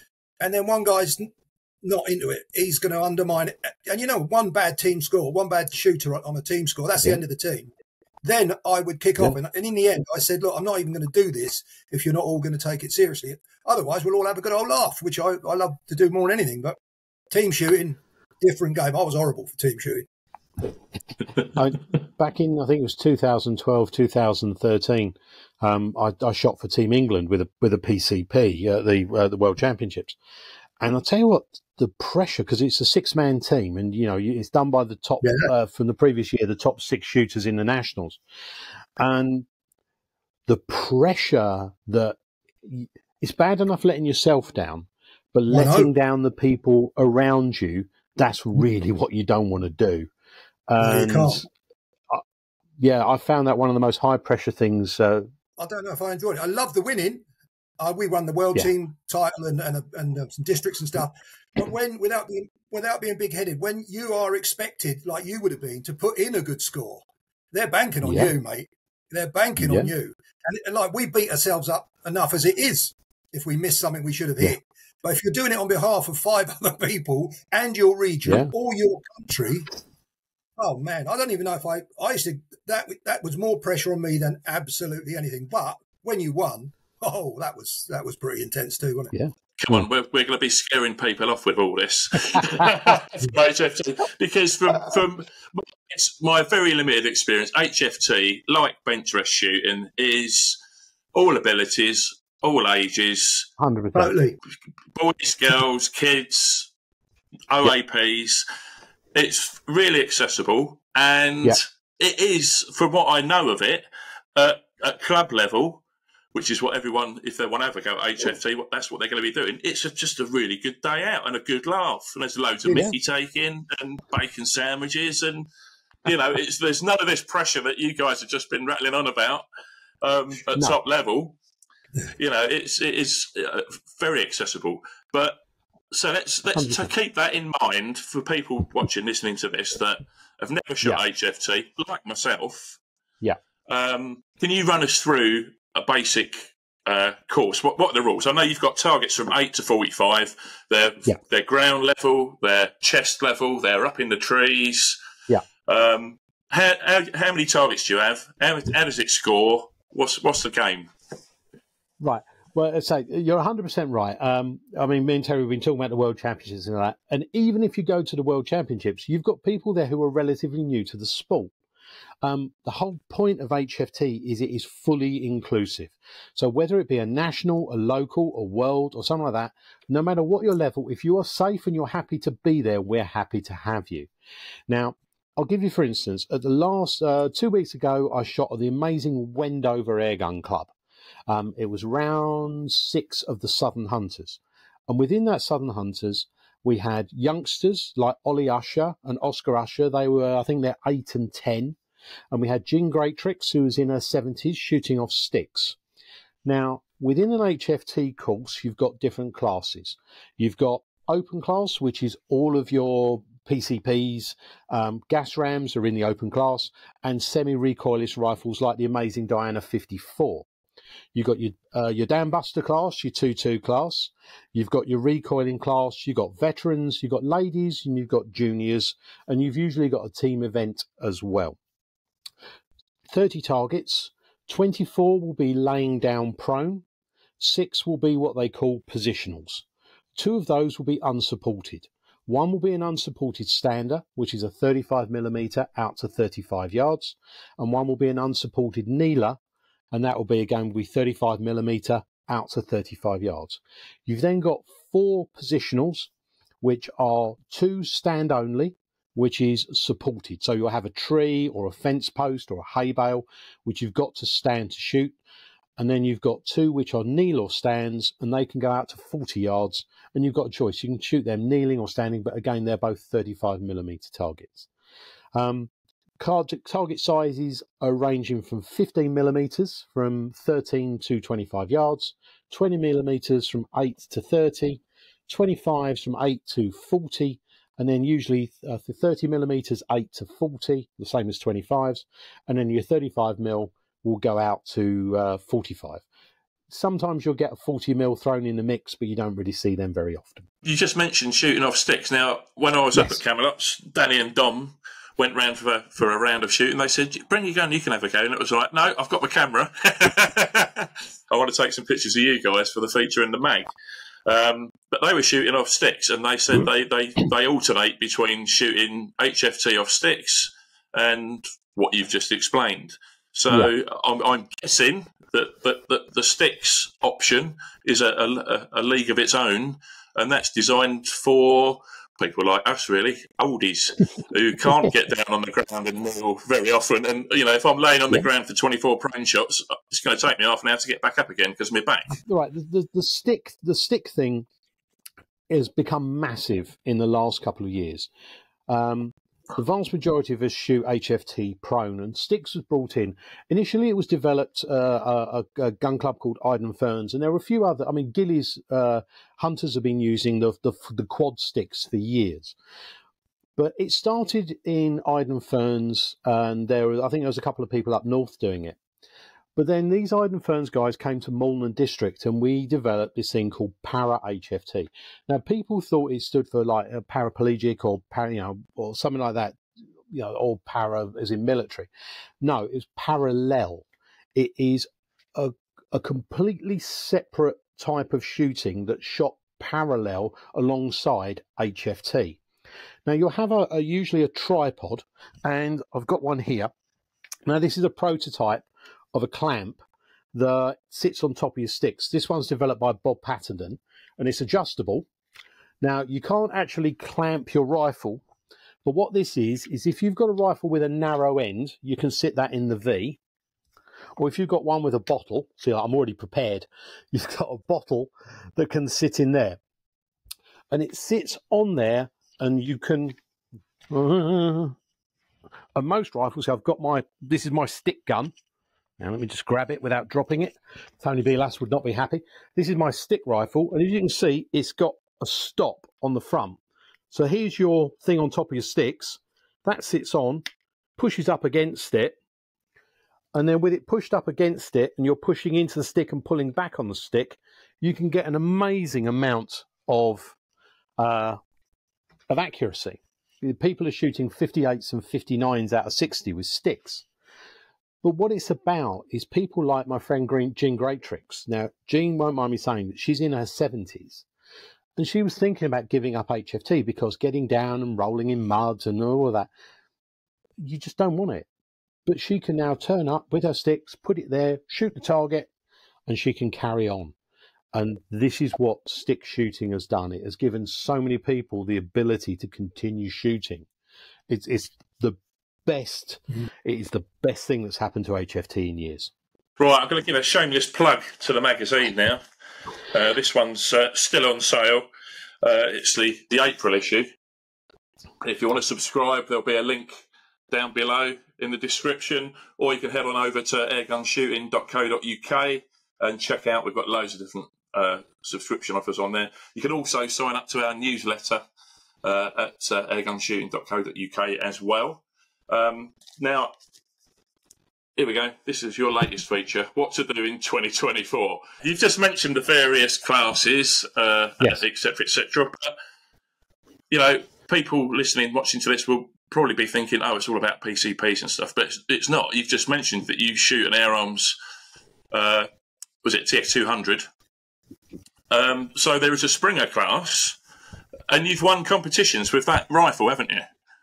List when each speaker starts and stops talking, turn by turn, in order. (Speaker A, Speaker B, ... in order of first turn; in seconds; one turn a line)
Speaker A: 0.4-1.3
Speaker A: 1.8-7.7
Speaker A: 8.2-16.8
Speaker A: 17.3-20.1
Speaker B: 21.5-30.2
Speaker B: 30.8-38.2
Speaker A: 35.2-35.5
Speaker B: 39.0-39.5
Speaker B: 40.5-50.1
Speaker A: 45.5-45.9
Speaker B: 50.7-51.5
Speaker A: 50.8-51.4
Speaker B: 52.8-55.3
Speaker A: 55.6-57.2
Speaker A: 57.8-79.7
Speaker B: 68.0-68.3
Speaker B: 69.6-69.9
Speaker B: 78.2-78.5
Speaker A: 80.6-89.1
Speaker B: 89.1-89.8
Speaker C: 89.6-100.6
Speaker C: 101.1-103.5
Speaker B: 103.6-104.2
Speaker A: 104.0-104.4
Speaker C: 105.0-106.7
Speaker C: 107.5-108.4
Speaker C: 109.2-115.8
Speaker C: 116.3-125.5
Speaker B: 122.7-122.9
Speaker C: 126.0-129.4
Speaker C: 130.0-131.4
Speaker C: 132.2-135.4
Speaker C: 135.9-142.8
Speaker B: 136.6-136.9
Speaker C: 143.7-155.0
Speaker C: 155.7-160.9
Speaker B: 162.0-171.5
Speaker B: 172.2-184.1
Speaker B: 184.7-190.7
Speaker B: 191.3-201.8
Speaker B: 202.3-205.8
Speaker B: 206.4-220.5
Speaker B: 221.1-231.6
Speaker B: 233.1-236.8
Speaker B: 237.4-239.7
Speaker B: 240.2-249.4
Speaker B: 249.9-256.1
Speaker B: 256.6-265.2
Speaker B: 265.8-274.7
Speaker B: 275.4-296.0
Speaker B: 296.7-300.5
Speaker C: 300.6-313.7
Speaker C: 314.3-342.1
Speaker B: 342.2-344.5
Speaker B: 345.5-348.1
Speaker B: 348.7-362.6
Speaker B: 363.6-368.8
Speaker B: 369.6-381.9
Speaker B: 382.4-392.4
Speaker B: 393.1-396.7
Speaker B: 397.5-399.8
Speaker B: 400.3-405.1
Speaker B: 405.8-408.2
Speaker B: 408.8-413.2
Speaker B: 414.2-419.6
Speaker B: 420.7-423.2
Speaker B: 423.9-424.8
Speaker B: 425.8-428.3
Speaker B: 429.0-436.6
Speaker B: 437.1-440.4
Speaker B: 441.0-442.2
Speaker B: 443.3-450.4
Speaker B: 451.0-451.4
Speaker B: 452.3-457.1
Speaker B: 458.0-464.3
Speaker B: 465.0-469.5
Speaker B: 470.6-471.5
Speaker B: 472.1-475.5
Speaker B: 476.1-477.1
Speaker B: 477.7-483.7
Speaker B: 484.3-489.1
Speaker C: 489.6-492.2
Speaker C: 492.9-494.9
Speaker C: 495.4-497.1
Speaker C: 498.2-511.4
Speaker C: 512.0-516.5
Speaker C: 518.0-525.8
Speaker C: 526.9-534.4
Speaker C: 535.1-535.5
Speaker C: 536.0-537.1
Speaker C: 538.3-540.4
Speaker C: 541.1-543.5